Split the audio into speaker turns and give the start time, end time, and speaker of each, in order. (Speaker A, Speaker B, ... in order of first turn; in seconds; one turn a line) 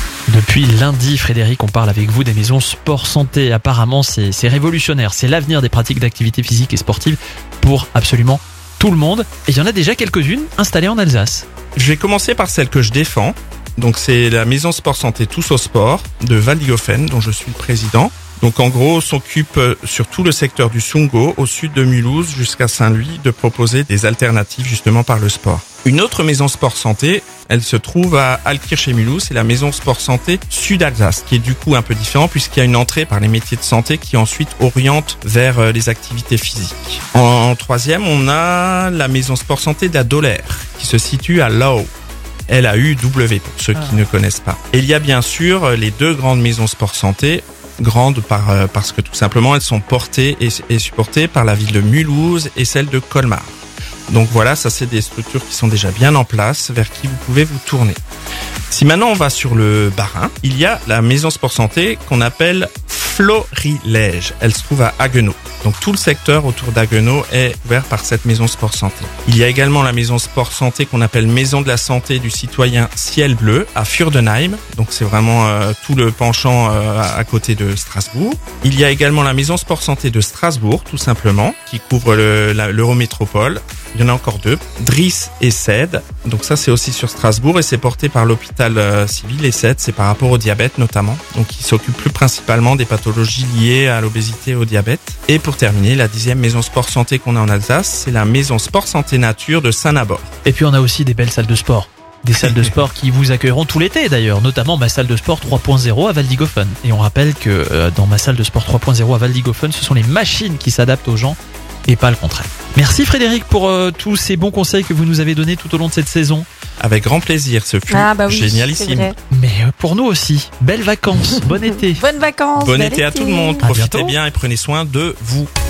Speaker A: 0.3-11.4
Speaker B: 11.8-41.9
Speaker B: 42.5-53.5
Speaker A: 43.7-44.0
Speaker B: 54.1-58.0
Speaker B: 58.7-100.3
Speaker A: 100.4-116.5
Speaker B: 102.4-102.7
Speaker B: 116.8-119.1
Speaker C: 117.9-119.1
Speaker A: 119.3-122.0
Speaker C: 122.0-123.7
Speaker B: 122.5-125.5
Speaker A: 123.6-124.1